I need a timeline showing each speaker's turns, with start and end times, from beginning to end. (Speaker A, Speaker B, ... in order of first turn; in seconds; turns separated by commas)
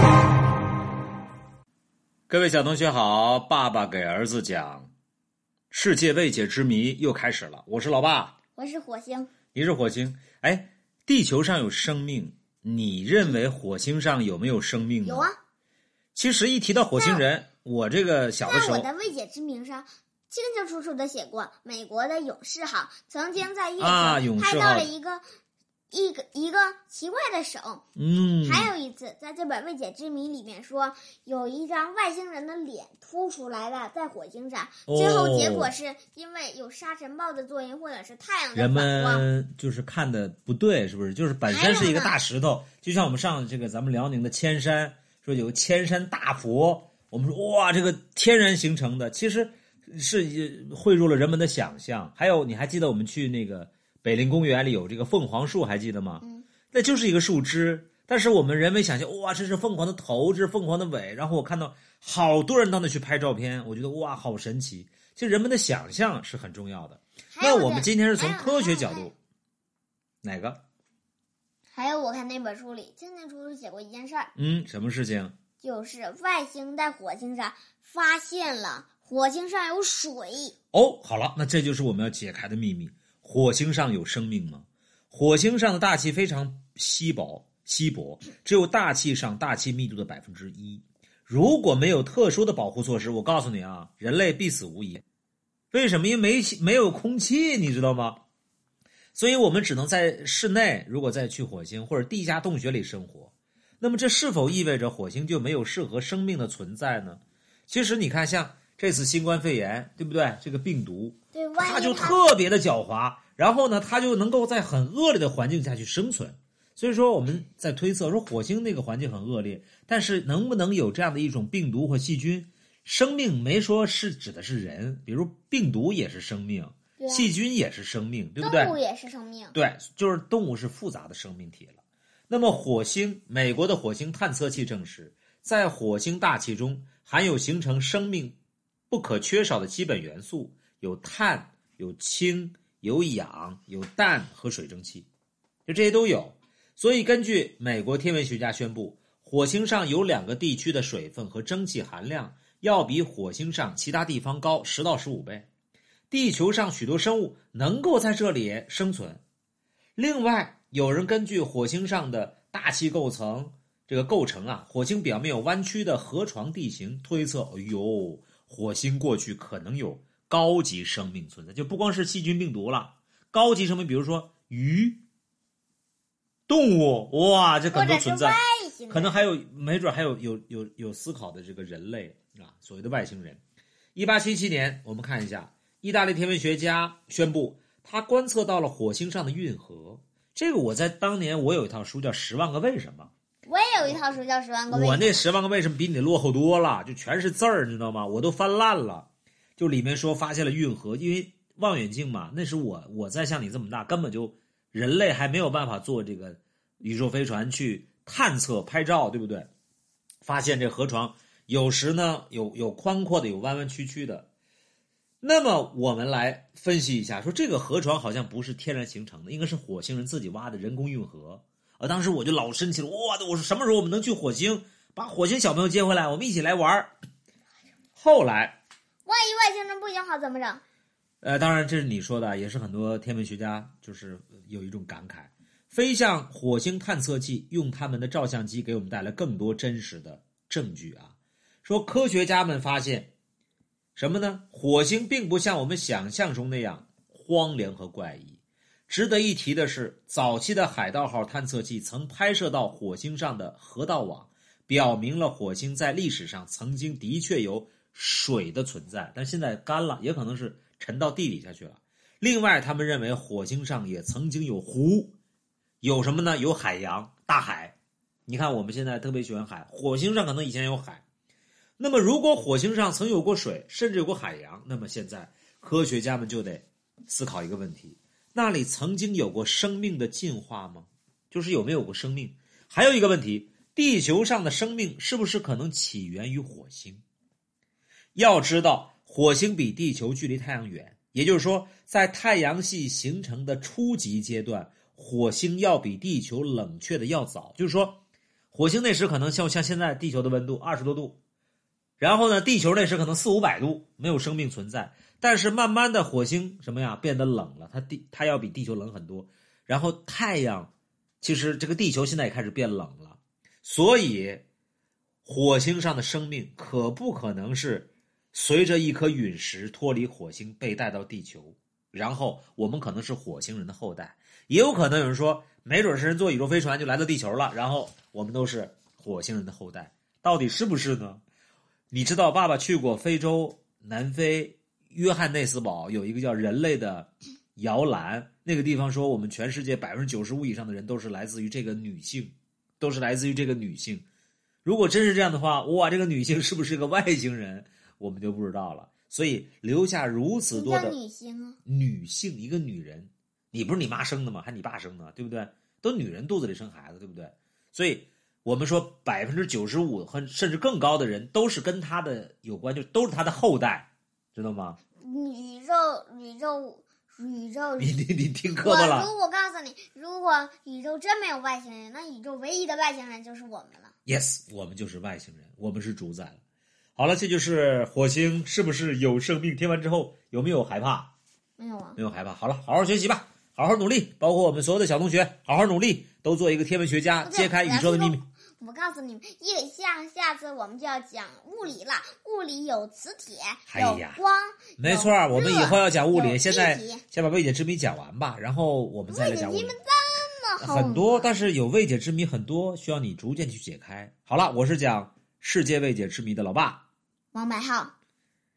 Speaker A: 2.3-4.9, Speaker A: 5.7-8.3, Speaker B: 8.6-9.3, Speaker A: 9.5-15.3, Speaker B: 15.0-15.3, Speaker A: 16.1-18.9, Speaker B: 16.9-17.2, Speaker B: 18.4-25.2, Speaker A: 23.8-24.9, Speaker B: 25.9-27.8, Speaker A: 27.9-28.7, Speaker B: 28.4-39.2, Speaker A: 34.9-35.7, Speaker A: 38.5-69.1, Speaker B: 41.5-42.2, Speaker B: 67.3-69.1, Speaker A: 70.2-70.6, Speaker B: 71.7-74.3, Speaker A: 74.3-75.3, Speaker B: 75.6-80.5, Speaker A: 80.7-95.0, Speaker A: 95.7-98.2, Speaker A: 99.1-128.8, Speaker B: 111.3-112.2, Speaker B: 127.0-127.3, Speaker B: 128.4-129.5, Speaker A: 129.5-138.4, Speaker A: 138.9-145.1, Speaker A: 145.7-155.5, Speaker A: 156.1-159.2, Speaker A: 159.9-175.0, Speaker A: 176.5-183.4, Speaker B: 177.7-179.2, Speaker A: 183.9-193.1, Speaker B: 193.4-195.2, Speaker A: 194.7-209.5, Speaker A: 210.2-214.3, Speaker A: 215.2-226.9, Speaker A: 227.9-228.6, Speaker B: 229.1-230.6, Speaker A: 231.2-243.1, Speaker A: 243.9-265.1, Speaker A: 265.8-267.7, Speaker A: 268.3-271.0, Speaker A: 271.8-287.0, Speaker A: 288.1-298.0, Speaker A: 298.5-301.2, Speaker A: 302.0-314.4, Speaker A: 315.2-331.2, Speaker A: 331.9-344.0, Speaker A: 344.6-350.9, Speaker B: 350.5-351.6, Speaker A: 351.6-364.8, Speaker B: 365.0-368.0, Speaker A: 367.8-369.1, Speaker B: 368.6-373.9, Speaker A: 374.1-376.4, Speaker A: 376.9-381.1, Speaker B: 381.6-382.0, Speaker A: 381.9-388.2, Speaker B: 387.2-397.0, Speaker A: 393.7-394.2, Speaker A: 394.8-399.8, Speaker B: 399.1-401.3, Speaker A: 400.6-406.8, Speaker B: 407.3-407.9